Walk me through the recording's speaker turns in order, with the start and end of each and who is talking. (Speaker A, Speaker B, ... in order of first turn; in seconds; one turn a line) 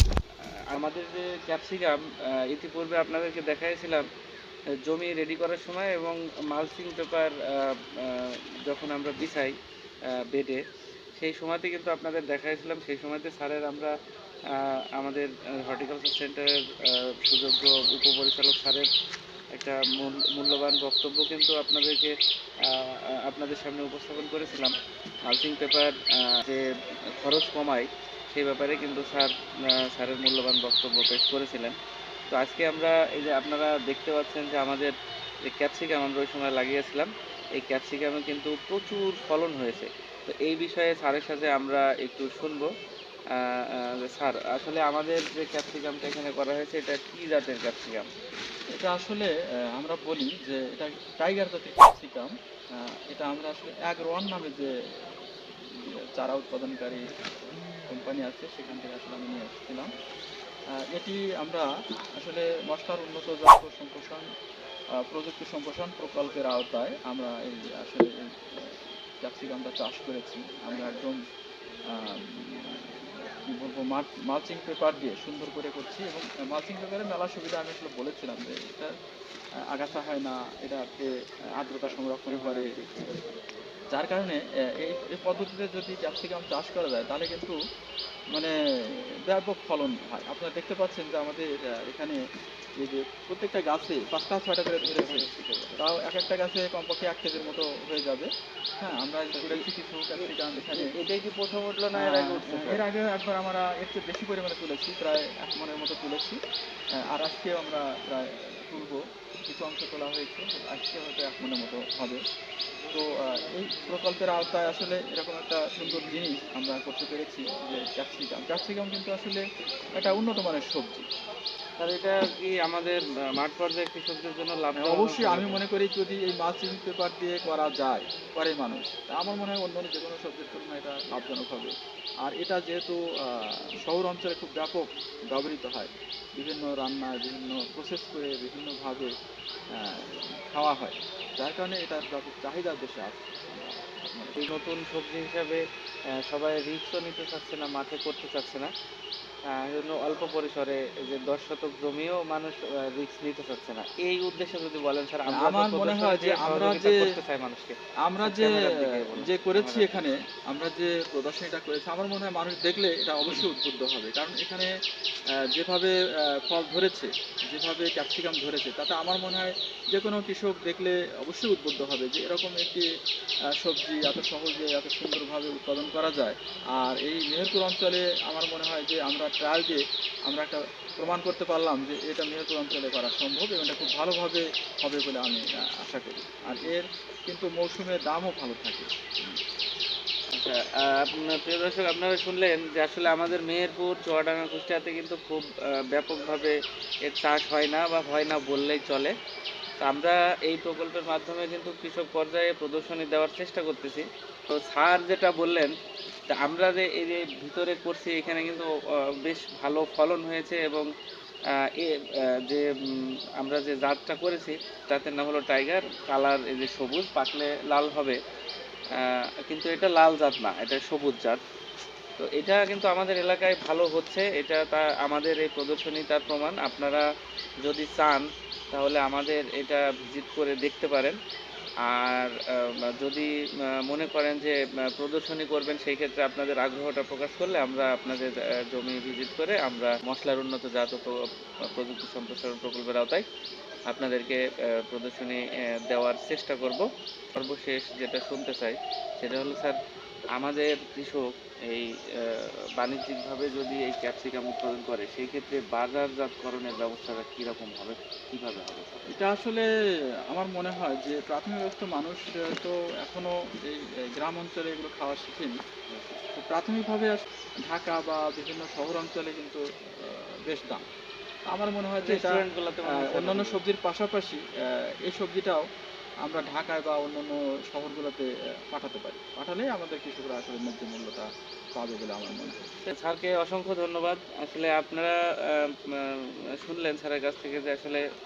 Speaker A: 0.7-4.0
Speaker A: 4.8-9.5
Speaker A: 10.3-10.6
Speaker A: 11.2-13.9
Speaker A: 14.5-18.9
Speaker A: 19.6-22.1
Speaker A: 22.6-24.7
Speaker A: 25.3-26.6
Speaker A: 27.2-29.3
Speaker A: 29.9-31.7
Speaker A: 32.3-34.9
Speaker A: 35.5-42.7
Speaker A: 43.3-48.1
Speaker B: 48.7-57.3
Speaker B: 57.9-59.9
Speaker B: 60.9-64.2
Speaker B: 65.0-71.2
Speaker B: 71.9-72.9
Speaker B: 73.5-78.9
Speaker B: 79.7-82.7
Speaker A: 82.3-83.2
Speaker B: 83.9-87.5
Speaker B: 89.3-92.2
Speaker B: 92.8-95.3
Speaker A: 94.8-95.8
Speaker B: 95.8-98.3
Speaker B: 98.8-100.9
Speaker A: 99.3-99.6
Speaker A: 100.2-102.8
Speaker B: 102.0-106.4
Speaker B: 107.1-112.2
Speaker B: 112.9-119.4
Speaker B: 119.9-121.0
Speaker A: 121.8-125.6
Speaker B: 124.8-131.7
Speaker B: 132.2-139.1
Speaker B: 139.8-144.4
Speaker A: 144.4-145.6
Speaker A: 146.3-148.7
Speaker A: 149.5-160.0
Speaker B: 155.3-157.0
Speaker B: 158.0-164.7
Speaker B: 165.5-172.8
Speaker B: 173.6-189.3
Speaker A: 190.3-196.5
Speaker A: 197.1-199.1
Speaker A: 199.8-205.7
Speaker A: 206.3-208.7
Speaker A: 209.2-210.9
Speaker A: 211.8-218.2
Speaker A: 218.9-221.4
Speaker A: 222.2-227.0
Speaker A: 227.6-231.2
Speaker A: 231.8-233.3
Speaker A: 233.8-241.1
Speaker A: 241.7-243.2
Speaker A: 243.9-249.8
Speaker A: 250.3-259.2
Speaker B: 259.1-259.6
Speaker B: 260.3-265.6
Speaker B: 266.4-270.8
Speaker B: 271.5-274.4
Speaker A: 272.0-273.6
Speaker B: 275.0-275.6
Speaker B: 276.2-282.6
Speaker A: 282.9-288.0